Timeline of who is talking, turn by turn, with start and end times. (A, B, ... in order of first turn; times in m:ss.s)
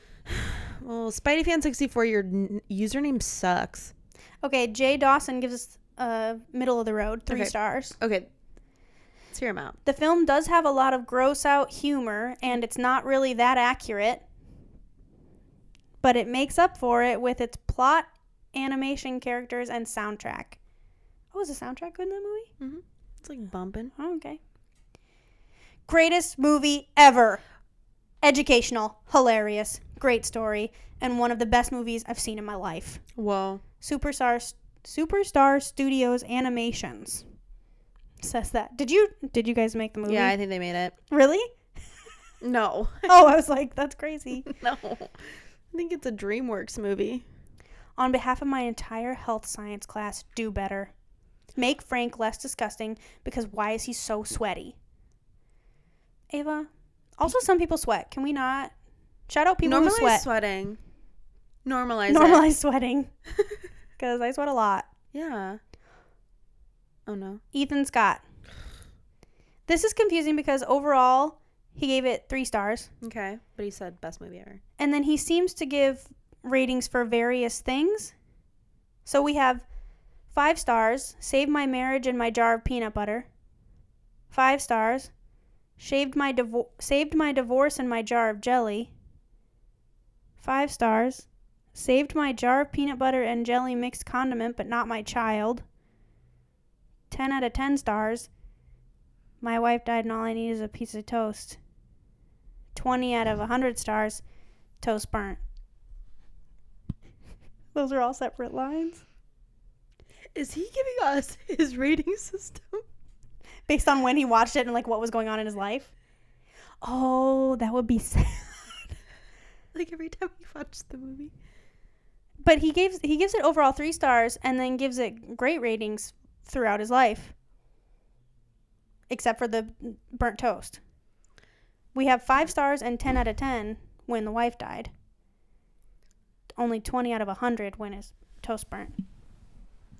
0:00.3-0:03.9 A
0:04.4-0:08.0 B
0:07.3-0:08.3 A
0:09.3-0:09.8 A
0:09.8-0:14.2 B
0:16.0-0:20.6 B
0:21.3-0:22.5 B
0:22.6-0:23.9 A
0:24.0-0:24.4 B
0:25.9-0:27.4 B
0:28.2-0:33.0 B
0:33.1-0:33.6 A
0:33.8-0:37.2 B
0:38.2-0:40.4 B
0:40.1-0:40.9 A
0:41.1-0:41.5 B
0:42.4-0:43.1 A
0:43.1-0:44.5 B
0:44.4-0:47.2 A
0:48.0-0:50.9 B
0:51.6-0:54.8 B
0:56.3-0:58.7 B
0:59.3-1:00.3 B
0:59.6-1:00.8 A
1:01.6-1:02.4 A
1:02.1-1:03.1 B
1:04.0-1:04.9 B
1:05.1-1:05.6 A
1:07.1-1:07.4 A
1:07.5-1:08.2 B
1:09.7-1:12.9 B
1:13.0-1:14.6 A
1:14.8-1:18.1 B
1:19.0-1:19.6 B
1:20.3-1:23.3 B
1:24.3-1:25.1 B
1:25.8-1:28.9 B
1:30.4-1:35.6 B
1:37.1-1:38.3 B
1:39.4-1:41.6 B
1:42.7-1:44.2 B
1:44.8-1:45.4 B
1:47.7-1:49.0 B
1:50.4-1:52.8 A
1:53.7-1:55.9 B
1:56.8-1:59.0 B
1:59.7-2:01.3 A
2:02.4-2:07.3 B
2:09.1-2:10.8 B
2:12.0-2:14.9 B
2:16.6-2:19.0 B